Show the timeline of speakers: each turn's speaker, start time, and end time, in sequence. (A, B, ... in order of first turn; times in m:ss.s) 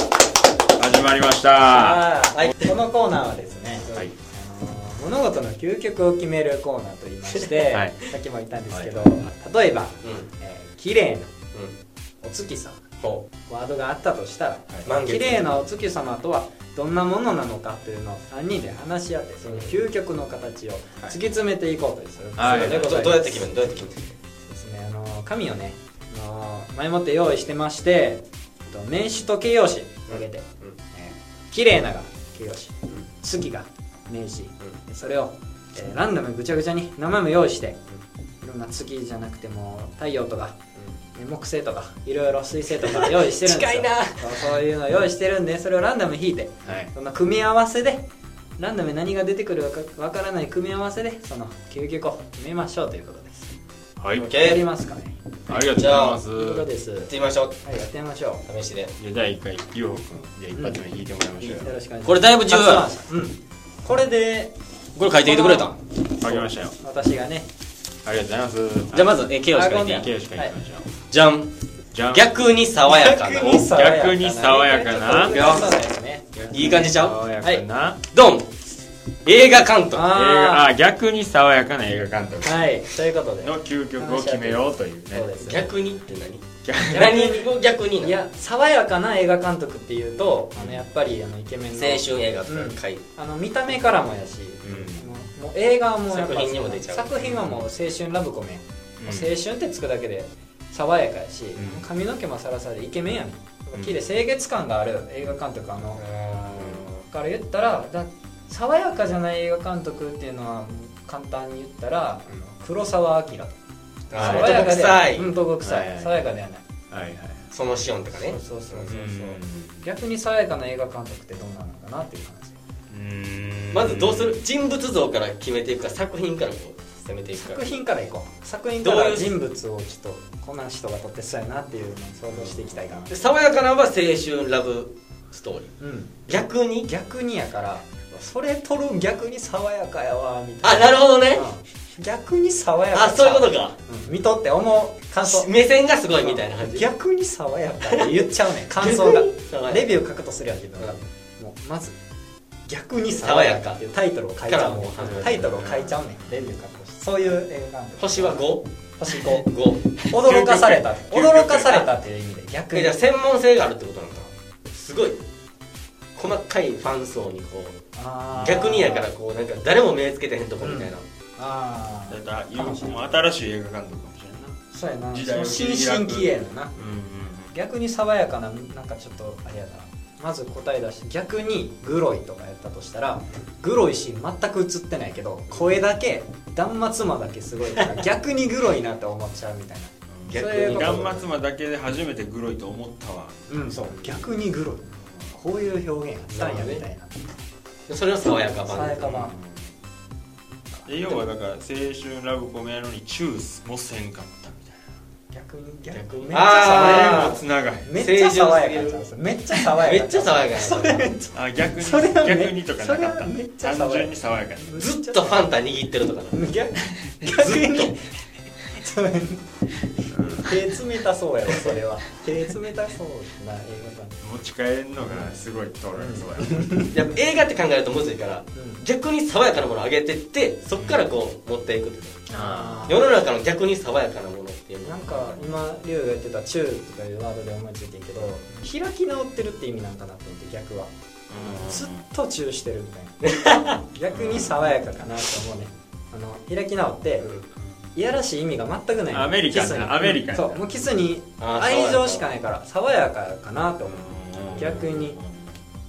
0:00.8-0:02.1 A
0:01.7-0:11.4 B
0:02.3-0:02.7 C
0:07.7-0:08.0 A
0:12.2-0:12.8 B
0:13.5-0:23.7 B
0:14.8-0:15.6 C
0:19.4-0:19.7 C
0:22.4-0:22.9 A
0:22.4-0:24.1 C
0:24.4-0:37.8 B
0:30.1-0:30.8 C
0:38.4-0:40.6 B
0:41.1-0:48.1 B
0:42.8-0:44.5 C
0:46.6-0:46.9 A
0:48.6-0:53.5 B
0:54.0-0:54.3 A
0:54.2-0:54.6 C
0:54.2-0:57.1 B
0:55.5-0:56.7 A
0:55.7-0:56.3 C
0:57.1-0:57.6 C
0:57.6-0:58.4 B
0:58.5-0:58.9 C
0:59.0-1:01.7 A
1:00.6-1:00.8 B
1:01.4-1:04.5 B
1:02.0-1:02.9 C
1:05.0-1:05.8 C
1:05.2-1:07.5 B
1:06.2-1:06.8 A
1:08.0-1:09.2 A
1:08.9-1:10.1 C
1:09.5-1:10.6 B
1:09.8-1:10.9 A
1:11.1-1:11.5 C
1:11.9-1:12.3 A
1:12.1-1:13.7 C
1:12.9-1:17.6 B
1:13.4-1:15.6 A
1:15.3-1:15.7 C
1:16.4-1:17.2 C
1:16.5-1:18.0 A
1:18.1-1:18.5 C
1:19.2-1:20.1 C
1:19.9-1:20.7 B
1:20.1-1:22.7 A
1:22.4-1:25.7 B
1:23.4-1:25.4 A
1:25.4-1:28.2 C
1:26.6-1:27.4 A
1:26.9-1:27.5 B
1:28.0-1:46.0 B
1:30.6-1:30.9 A
1:31.8-1:33.0 C
1:34.6-1:35.1 A
1:36.1-1:37.4 C
1:39.0-1:39.3 A
1:41.6-1:41.8 A
1:46.0-1:46.9 C
1:46.6-1:47.0 A
1:47.1-1:53.5 B
1:54.1-1:55.3 C
1:54.2-1:54.5 A
1:54.2-1:56.7 B
1:55.6-1:56.3 A
1:56.9-1:57.5 A
1:57.5-1:58.9 C
1:58.2-2:02.6 B
1:58.9-1:59.8 A
2:02.9-2:04.4 A
2:03.7-2:07.7 C
2:07.4-2:13.1 B
2:08.8-2:09.3 C
2:12.3-2:13.1 A
2:13.1-2:15.7 C
2:15.8-2:25.5 B
2:16.3-2:16.9 C
2:20.6-2:21.5 C
2:22.9-2:23.8 C
2:25.2-2:26.9 C
2:26.2-2:32.0 B
2:27.9-2:28.3 C
2:28.8-2:29.8 C
2:32.7-2:39.5 B
2:33.1-2:33.8 C
2:34.5-2:35.6 C
2:35.5-2:36.0 A
2:38.0-2:38.6 C
2:39.2-2:39.9 C
2:40.0-2:41.9 A
2:40.0-2:43.0 B
2:42.7-2:45.2 C
2:46.2-2:47.8 C
2:48.0-2:49.1 B
2:48.4-2:51.0 C
2:50.6-2:53.2 B
2:52.1-2:54.6 A
2:54.7-2:56.8 B
2:55.1-2:57.5 A
2:57.5-3:11.2 B
3:10.1-3:13.4 A
3:10.3-3:11.2 C
3:13.5-3:17.2 B
3:16.3-3:16.8 C
3:17.9-3:19.3 C
3:18.7-3:19.4 B
3:19.1-3:19.7 A
3:20.9-3:24.8 A
3:25.3-3:35.5 B
3:25.9-3:27.4 C
3:26.6-3:27.9 A
3:28.0-3:29.0 C
3:29.6-3:31.2 C
3:31.3-3:34.7 A
3:34.8-3:36.6 C
3:36.3-3:38.1 B
3:36.9-3:37.3 A
3:37.3-3:38.0 C
3:38.7-3:44.2 B
3:40.0-3:40.6 A
3:44.2-3:46.8 A
3:45.0-3:45.3 B
3:46.0-3:47.0 B
3:46.9-3:52.3 C
3:48.6-3:48.8 B
3:50.8-3:51.1 A
3:52.3-3:53.0 A
3:52.3-3:53.1 B
3:52.9-3:55.1 C
3:54.8-4:07.3 B
3:55.2-3:55.6 A
4:01.3-4:02.0 A
4:03.2-4:03.6 C
4:04.1-4:04.6 A
4:08.0-4:15.2 B
4:09.1-4:10.6 A
4:11.4-4:12.3 C
4:13.9-4:15.6 A